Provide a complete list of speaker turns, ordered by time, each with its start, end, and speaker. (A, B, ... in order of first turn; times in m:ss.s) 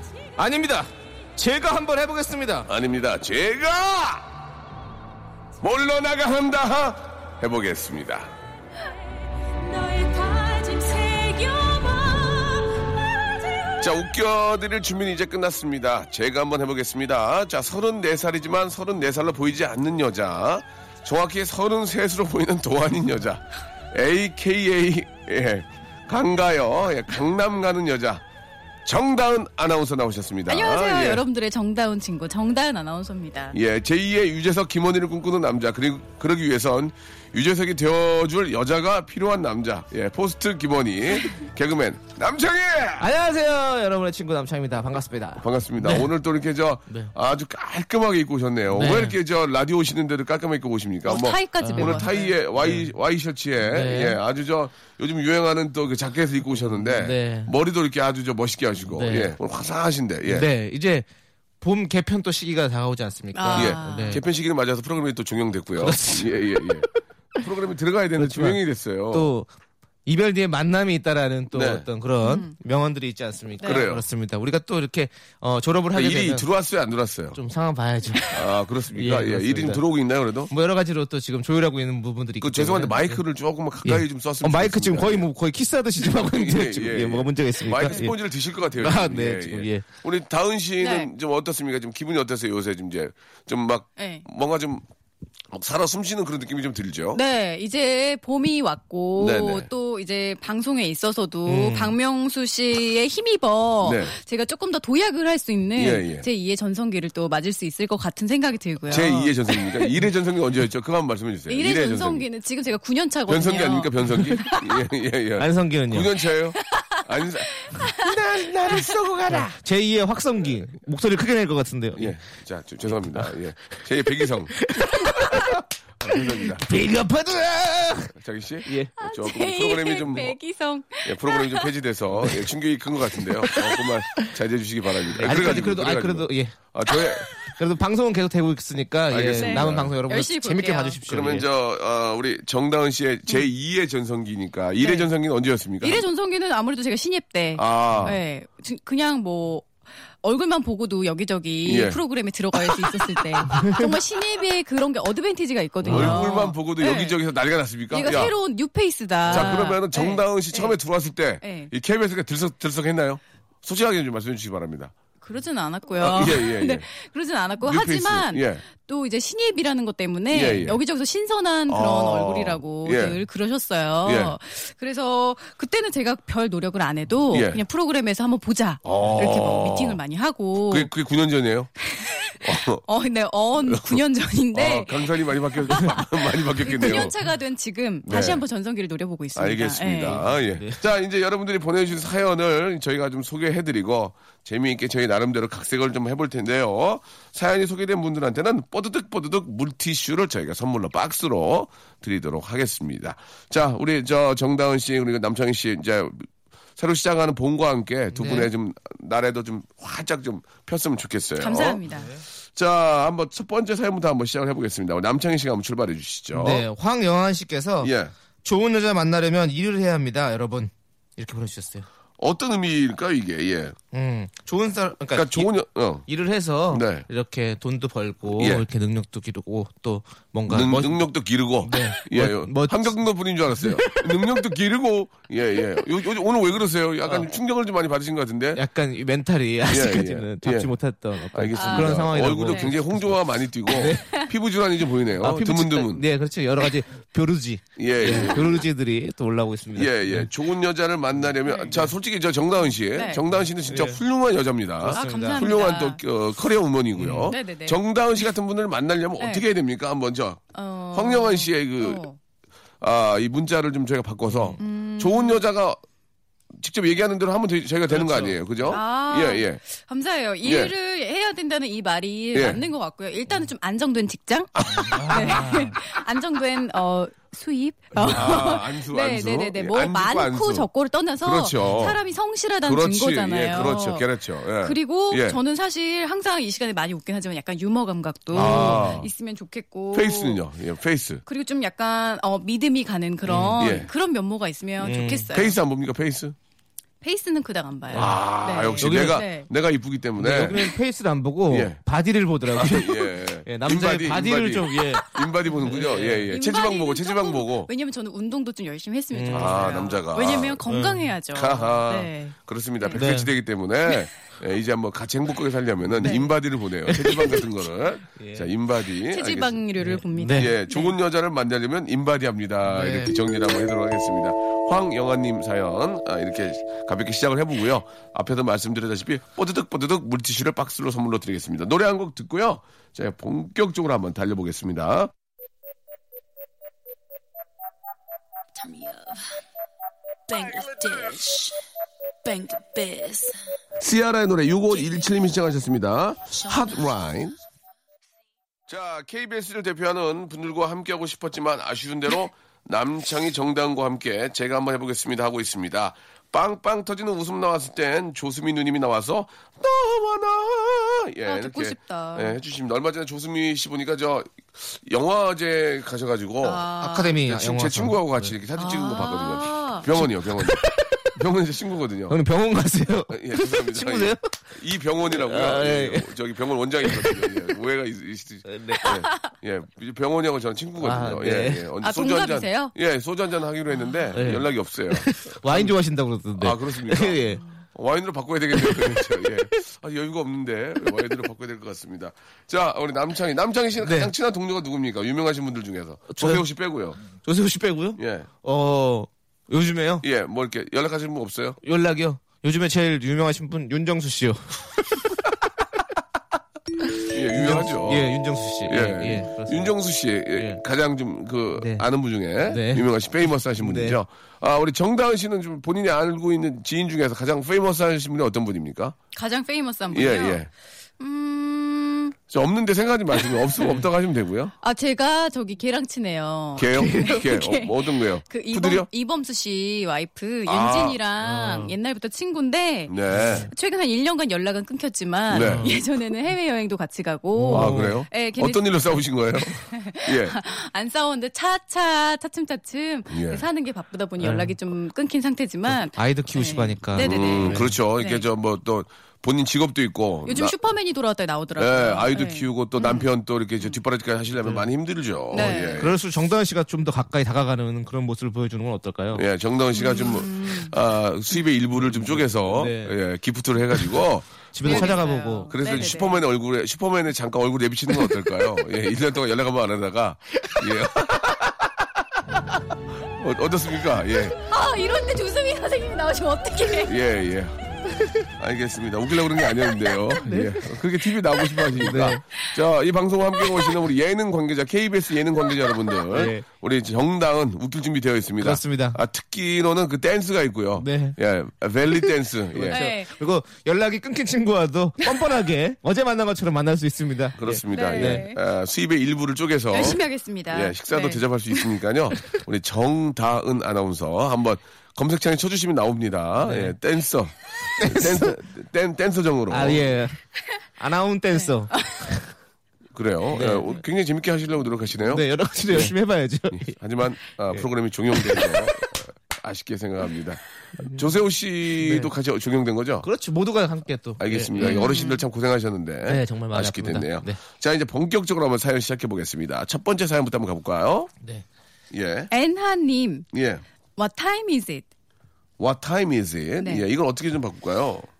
0:00.4-0:02.7 A
0:02.7-0:04.3 B
0:05.6-0:08.3 B
0:09.9-0:11.8 C
0:13.8-0:28.2 B
0:28.8-0:31.2 B
0:30.5-0:33.5 C
0:33.5-0:43.1 B
0:43.0-0:46.1 A
0:45.4-1:00.5 B
0:48.7-0:49.2 A
0:51.0-0:52.3 C
0:51.6-0:52.9 A
0:53.6-0:54.2 A
0:56.8-0:57.5 A
0:59.0-0:59.4 A
1:00.3-1:01.0 A
1:01.6-1:04.2 A
1:03.3-1:04.2 C
1:03.6-1:09.3 B
1:05.8-1:06.8 A
1:08.2-1:08.6 A
1:09.1-1:09.5 A
1:10.0-1:16.4 A
1:11.5-1:11.9 B
1:12.2-1:12.5 C
1:13.6-1:14.0 B
1:15.9-1:17.4 B
1:17.3-1:18.3 A
1:18.3-1:20.5 B
1:18.9-1:19.8 A
1:20.5-1:23.2 A
1:22.4-1:25.3 B
1:23.8-1:28.2 A
1:26.0-1:34.8 B
1:28.8-1:29.8 A
1:30.8-1:31.1 C
1:34.0-1:34.2 C
1:35.5-1:37.2 B
1:37.1-1:50.0 C
1:39.2-1:39.7 B
1:41.4-1:41.9 A
1:43.8-1:44.1 B
1:45.8-1:46.2 B
1:48.9-1:52.2 B
1:51.5-1:54.6 C
1:53.3-1:59.6 B
1:55.4-1:56.1 A
1:57.6-1:58.0 C
1:59.3-2:02.1 A
2:02.0-2:05.4 B
2:04.6-2:05.6 A
2:06.0-2:06.6 B
2:06.1-2:08.1 A
2:08.1-2:10.4 B
2:08.6-2:08.9 A
2:09.0-2:11.7 C
2:11.0-2:17.3 B
2:15.2-2:16.6 A
2:17.6-2:21.4 A
2:19.1-2:19.9 B
2:19.4-2:21.0 C
2:21.0-2:26.0 B
2:24.8-2:25.1 C
2:25.8-2:29.7 C
2:27.6-2:28.2 B
2:27.9-2:28.2 A
2:30.2-2:37.2 C
2:31.6-2:32.0 B
2:35.8-2:36.2 A
2:35.8-2:38.3 B
2:37.9-2:40.8 C
2:39.3-2:39.5 A
2:39.3-2:44.9 B
2:41.4-2:41.7 C
2:45.2-3:00.9 C
2:46.0-2:46.8 B
2:47.6-2:48.6 B
2:50.3-2:50.8 B
2:51.7-2:53.2 B
2:54.0-2:54.3 B
2:57.3-2:57.6 B
2:58.8-3:00.0 B
3:00.7-3:01.7 B
3:01.8-3:10.2 C
3:02.4-3:02.8 B
3:03.6-3:04.0 B
3:04.5-3:07.1 B
3:08.0-3:08.4 B
3:09.3-3:31.8 B
3:10.1-3:10.8 A
3:28.1-3:28.5 A
3:31.4-3:32.1 C
3:31.9-3:32.2 A
3:32.5-3:36.6 B
3:36.3-3:37.9 A
3:37.8-3:38.1 B
3:38.4-3:41.8 A
3:42.2-3:43.8 B
3:43.9-3:45.5 A
3:45.1-3:46.1 B
3:46.1-3:51.1 A
3:46.7-3:47.0 B
3:48.3-3:48.6 B
3:50.5-3:58.6 B
3:51.6-3:53.0 A
3:53.5-3:54.2 A
3:58.5-4:04.2 A
3:59.7-4:00.7 B
4:01.3-4:06.0 B
4:01.6-4:01.9 C
4:05.2-4:10.3 A
4:07.8-4:08.6 B
4:09.8-4:22.0 B
4:11.5-4:11.8 C
4:12.9-4:13.2 C
4:13.7-4:14.0 A
4:14.8-4:15.4 A
4:14.9-4:16.0 C
4:17.0-4:17.3 A
4:17.3-4:17.8 C
4:20.5-4:22.2 C
4:22.8-4:25.8 B
4:24.3-4:24.6 A
4:24.6-4:25.4 C
4:26.5-4:29.6 B
4:27.9-4:28.8 A
4:28.7-4:34.5 C
4:30.4-4:30.7 B
4:32.3-4:32.6 B
4:34.6-4:35.8 B
4:34.7-4:35.8 A
4:35.1-4:44.1 C
4:38.0-4:40.7 B
4:41.2-4:42.0 B
4:41.6-4:41.9 A
4:42.6-4:45.4 B
4:44.6-4:50.4 C
4:48.3-4:49.0 A
4:48.3-4:49.1 B
4:49.9-4:51.2 B
4:51.2-4:55.6 C
4:53.3-4:53.6 A
4:53.6-4:53.9 B
4:54.8-4:55.3 A
4:55.3-4:56.3 B
4:57.0-4:59.5 C
4:57.9-4:58.2 A
4:57.9-5:00.7 B
4:58.8-4:59.2 A
5:00.2-5:06.3 A
5:01.5-5:01.8 B
5:02.5-5:07.7 B
5:06.3-5:13.0 C
5:09.1-5:09.9 A
5:09.3-5:10.6 B
5:10.6-5:11.1 A
5:11.3-5:19.6 B
5:13.0-5:13.3 A
5:16.0-5:16.3 C
5:16.9-5:17.4 A
5:18.2-5:18.5 A
5:19.1-5:20.9 C
5:19.8-5:20.5 A
5:20.3-5:35.1 B
5:22.6-5:23.1 A
5:38.6-5:39.1 D
5:40.3-5:41.2 D
5:42.2-5:43.3 D
5:43.8-5:47.4 B
5:48.7-6:12.2 B
6:01.2-6:02.4 C
6:06.4-6:07.2 C
6:06.8-6:08.3 A
6:08.6-6:09.9 C
6:10.0-6:11.1 A
6:12.1-6:14.5 A
6:13.1-6:25.7 B
6:15.1-6:16.1 A
6:16.8-6:17.3 A
6:18.4-6:18.8 A
6:20.8-6:21.7 A
6:21.8-6:22.7 C
6:24.1-6:27.4 A
6:26.4-6:37.0 B
6:28.5-6:29.3 A
6:33.8-6:34.1 A
6:36.1-6:36.4 A
6:37.0-6:40.0 A
6:38.0-6:38.3 B
6:40.0-6:41.6 B
6:41.6-6:45.1 A
6:47.0-6:49.7 A
6:47.1-6:48.1 B
6:48.6-6:59.0 B
6:50.3-6:50.6 A
6:51.6-6:51.8 A
6:52.4-6:52.9 A
6:53.5-6:54.0 A
6:59.1-7:00.4 C
6:59.9-7:00.5 B
7:01.0-7:02.2 C
7:02.3-7:04.5 B
7:04.6-7:19.1 C
7:06.6-7:08.9 B
7:06.7-7:07.1 A
7:10.5-7:11.0 B
7:11.2-7:11.7 A
7:12.9-7:13.5 B
7:13.1-7:13.5 A
7:15.3-7:15.8 B
7:15.4-7:15.8 A
7:17.3-7:18.0 A
7:17.5-7:20.4 B
7:19.7-7:28.2 C
7:23.1-7:23.4 B
7:24.2-7:24.5 A
7:25.7-7:27.7 A
7:27.0-7:30.5 B
7:30.3-7:33.1 C
7:31.6-7:36.0 B
7:35.3-7:35.8 C
7:35.3-7:39.2 A
7:39.1-7:45.0 B
7:39.7-7:40.7 C
7:41.9-7:43.0 A
7:44.5-7:45.5 A
7:44.6-7:46.2 C
7:45.5-7:51.5 B
7:53.1-7:54.4 B
7:54.4-7:57.0 C
7:56.8-7:57.6 B
7:58.4-8:12.8 B
8:00.2-8:00.7 A
8:01.7-8:02.2 A
8:06.1-8:06.4 A
8:08.4-8:09.0 A
8:10.8-8:11.2 A
8:12.5-8:18.3 A
8:12.7-8:13.1 C
8:17.4-8:29.9 B
8:17.7-8:18.4 C
8:19.7-8:21.7 C
8:26.4-8:26.7 A
8:27.8-8:28.4 A
8:29.5-8:30.2 A
8:30.8-8:32.3 A
8:32.9-8:35.9 B
8:33.3-8:33.8 A
8:35.0-8:36.7 A
8:36.5-8:43.1 B
8:37.5-8:38.6 A
8:40.8-8:41.1 A
8:41.8-8:42.1 A
8:43.0-8:44.9 A
8:44.2-8:51.1 B
8:44.6-8:45.2 C
8:46.1-8:47.4 A
8:51.9-8:52.3 B
8:52.3-8:53.3 C
8:53.3-8:53.6 B
8:54.0-8:54.8 C
8:55.6-8:58.1 B